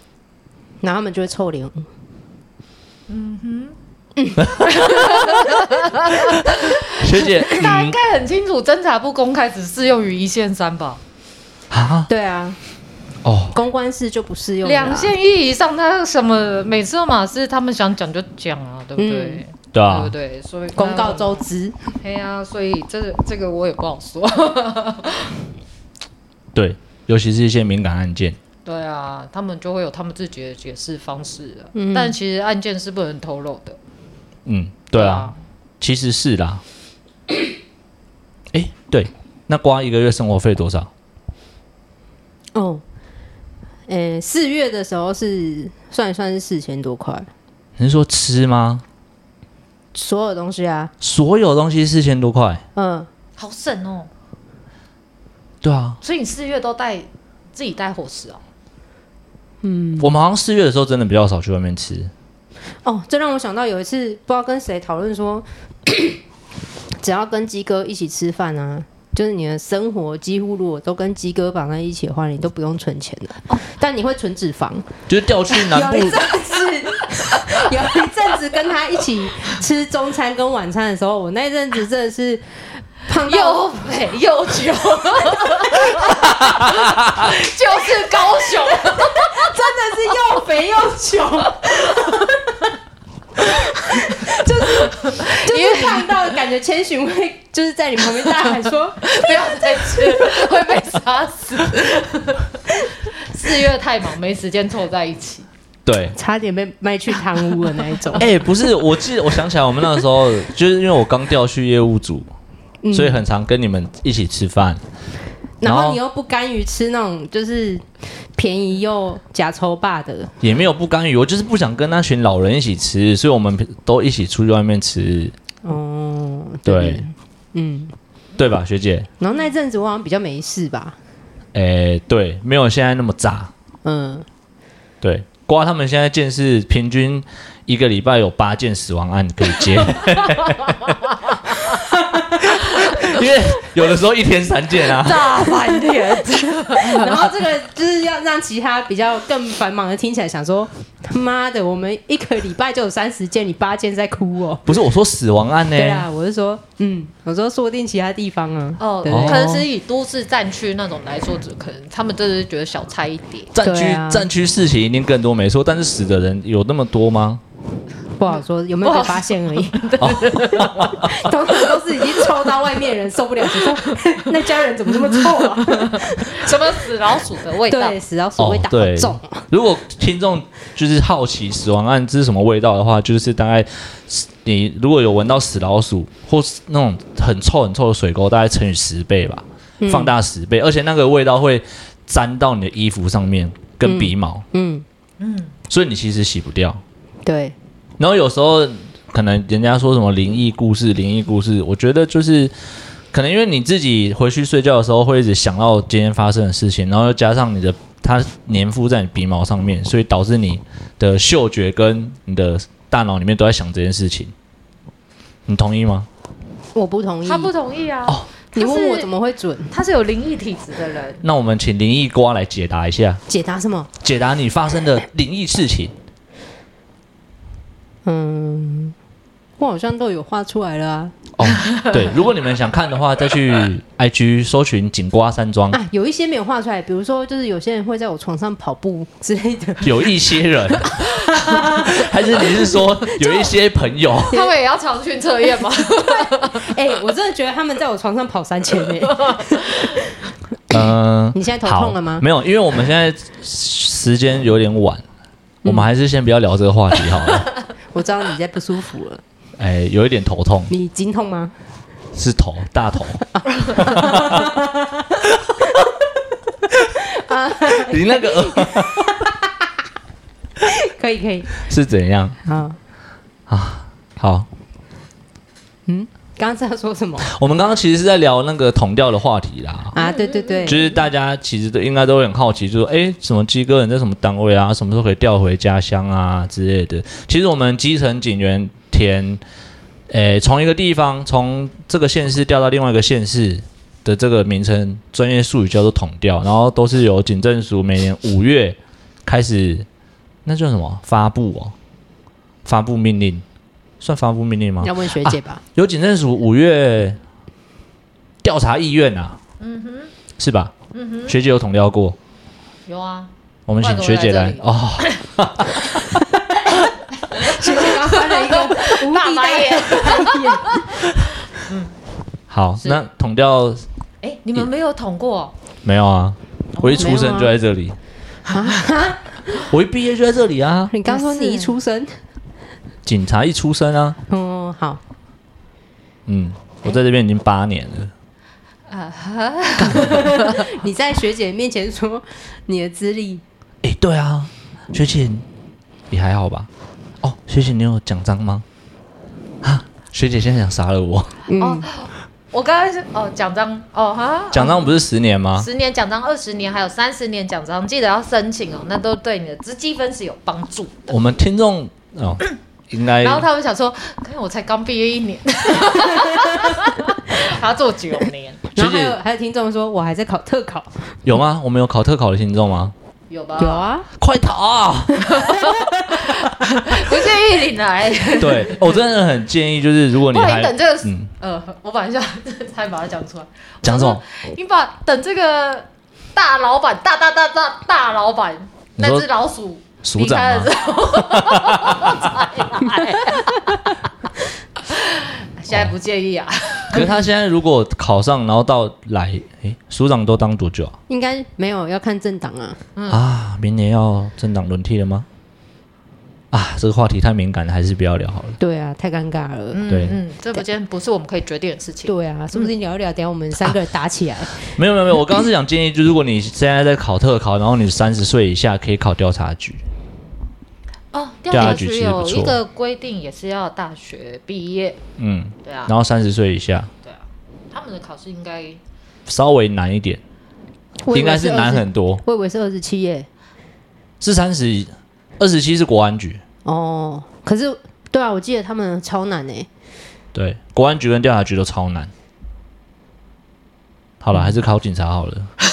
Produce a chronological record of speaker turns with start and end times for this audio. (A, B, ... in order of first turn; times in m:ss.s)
0:00.8-0:01.9 A
0:03.1-0:03.8 B
0:04.2-0:05.3 A
0:04.4-0:04.7 C
0:04.6-0:11.0 B
0:06.4-0:08.0 C
0:11.7-0:12.1 C
0:12.1-0:12.6 A
0:13.2-0:13.6 C
0:13.5-0:15.1 A
0:14.6-0:21.5 B
0:19.0-0:19.4 A
0:19.7-0:20.1 C
0:20.8-0:21.8 A
0:22.0-0:25.4 B
0:26.6-0:28.4 C
0:28.6-0:33.8 B
0:31.8-0:32.2 A
0:34.5-0:36.6 C
0:34.9-0:35.4 B
0:38.5-0:40.9 C
0:42.5-0:42.8 A
0:43.9-0:47.3 A
0:47.8-0:48.8 C
0:49.9-0:50.9 A
0:51.0-0:52.6 C
0:52.8-0:53.1 A
0:53.4-0:54.1 B
0:55.6-0:56.0 C
0:56.0-0:58.4 B
0:59.6-1:00.1 A
1:00.0-1:02.1 C
1:02.8-1:06.2 A
1:07.0-1:14.9 A
1:15.1-1:16.3 C
1:15.5-1:23.6 A
1:23.3-1:30.4 B
1:26.3-1:27.2 C
1:28.7-1:32.7 A
1:31.6-1:32.3 B
1:33.4-1:40.1 A
1:33.9-1:36.3 B
1:39.0-1:45.5 B
1:45.9-1:46.2 C
1:46.2-1:48.3 A
1:48.2-1:52.3 C
1:52.8-1:53.2 A
1:52.9-1:54.8 C
1:55.6-2:00.3 A
1:55.6-1:56.0 C
2:00.4-2:05.4 C
2:05.6-2:07.9 A
2:06.7-2:07.1 C
2:08.4-2:09.1 C
2:09.2-2:11.0 A
2:11.5-2:13.5 C
2:13.8-2:14.3 A
2:15.0-2:21.0 C
2:21.7-2:22.5 A
2:22.4-2:25.3 C
2:24.9-2:27.3 B
2:25.6-2:26.1 A
2:26.7-2:34.7 A
2:34.7-2:36.1 C
2:35.8-2:39.7 A
2:38.8-2:43.5 B
2:39.1-2:39.6 C
2:43.5-2:47.4 C
2:43.6-2:44.3 A
2:48.2-2:50.0 A
2:48.8-2:51.0 B
2:50.0-2:51.1 C
2:50.5-2:56.7 A
2:52.0-2:52.4 B
2:53.5-2:54.1 B
2:55.1-2:58.0 B
2:57.7-2:59.5 A
2:58.4-3:14.4 C
3:09.8-3:10.1 A
3:13.8-3:14.8 A
3:15.2-3:15.6 B
3:15.7-3:16.8 C
3:17.2-3:17.6 A
3:18.0-3:22.5 C
3:23.1-3:34.3 C
3:35.5-3:36.1 C
3:36.7-3:37.5 A
3:37.2-3:39.1 B
3:38.6-3:39.7 A
3:39.7-3:41.2 B
3:41.2-3:43.2 C
3:43.3-3:43.9 A
3:44.0-3:45.9 C
3:48.0-3:49.0 A
3:49.6-3:51.2 A
3:51.4-3:55.8 C
3:55.7-4:00.2 A
3:59.8-4:04.4 C
4:00.7-4:03.4 A
4:04.3-4:06.7 B
4:05.9-4:10.0 A
4:09.1-4:09.6 B
4:10.7-4:15.0 C
4:11.3-4:12.2 A
4:15.6-4:15.9 A
4:15.6-4:17.5 C
4:17.9-4:19.2 A
4:19.6-4:20.7 C
4:20.7-4:21.5 A
4:22.1-4:24.6 C
4:23.6-4:25.3 A
4:26.9-4:29.5 A
4:27.7-4:29.1 C
4:30.6-4:31.6 A
4:31.6-4:32.4 C
4:32.4-4:32.8 A
4:33.5-4:34.5 C
4:35.9-4:37.3 A
4:37.2-4:40.0 C
4:40.0-4:40.9 A
4:40.0-4:41.0 B
4:40.7-4:49.4 C
4:50.1-4:59.9 C
5:00.4-5:01.8 C
5:02.6-5:03.4 C
5:04.0-5:07.2 C
5:04.8-5:05.6 A
5:08.4-5:09.4 C
5:09.6-5:10.1 B
5:10.4-5:10.8 C
5:10.9-5:11.4 B
5:11.3-5:12.2 C
5:12.9-5:15.1 B
5:13.7-5:16.3 C
5:17.3-5:21.9 B
5:17.3-5:21.1 A
5:22.5-5:23.8 C
5:24.2-5:25.5 B
5:25.8-5:28.0 C
5:26.8-5:27.2 B
5:27.0-5:27.5 A
5:28.5-5:29.6 A
5:29.6-5:30.9 C
5:30.9-5:32.1 A
5:31.1-5:31.8 B
5:33.0-5:34.2 C
5:34.3-5:35.0 A
5:36.3-5:38.1 C
5:38.9-5:40.7 B
5:39.8-5:40.3 C
5:39.9-5:43.4 A
5:43.8-5:45.4 C
5:46.1-5:46.7 C
5:47.2-5:48.6 C
5:49.6-5:51.4 C
5:51.5-5:51.9 A
5:51.6-5:55.0 B
5:54.5-5:55.7 C
5:55.6-6:01.1 B
6:01.1-6:03.5 C
6:03.2-6:08.6 B
6:08.8-6:11.2 A
6:08.8-6:09.2 C
6:11.2-6:12.9 C
6:13.3-6:13.9 B
6:13.6-6:14.1 A
6:14.2-6:15.4 C
6:15.2-6:19.0 B
6:15.5-6:16.1 A
6:18.4-6:21.3 C
6:20.2-6:34.0 B
6:23.8-6:24.2 C
6:29.0-6:29.3 C
6:30.0-6:32.2 C
6:34.8-6:37.1 B
6:36.9-6:41.0 C
6:41.1-6:42.8 A
6:43.0-6:43.2 B
6:43.1-6:45.3 C
6:46.5-6:48.6 C
6:48.6-6:49.8 A
6:49.7-6:52.7 B
6:49.9-6:50.2 C
6:52.1-6:54.8 A
6:54.6-6:59.8 C
7:01.1-7:05.0 B
7:01.5-7:02.6 C
7:05.2-7:06.9 C
7:05.6-7:05.9 B
7:07.0-7:08.8 B
7:09.3-7:10.2 C
7:11.0-7:13.3 A
7:11.1-7:12.2 C
7:14.2-7:16.4 C
7:16.6-7:19.7 A
7:20.3-7:22.1 C
7:24.2-7:25.5 C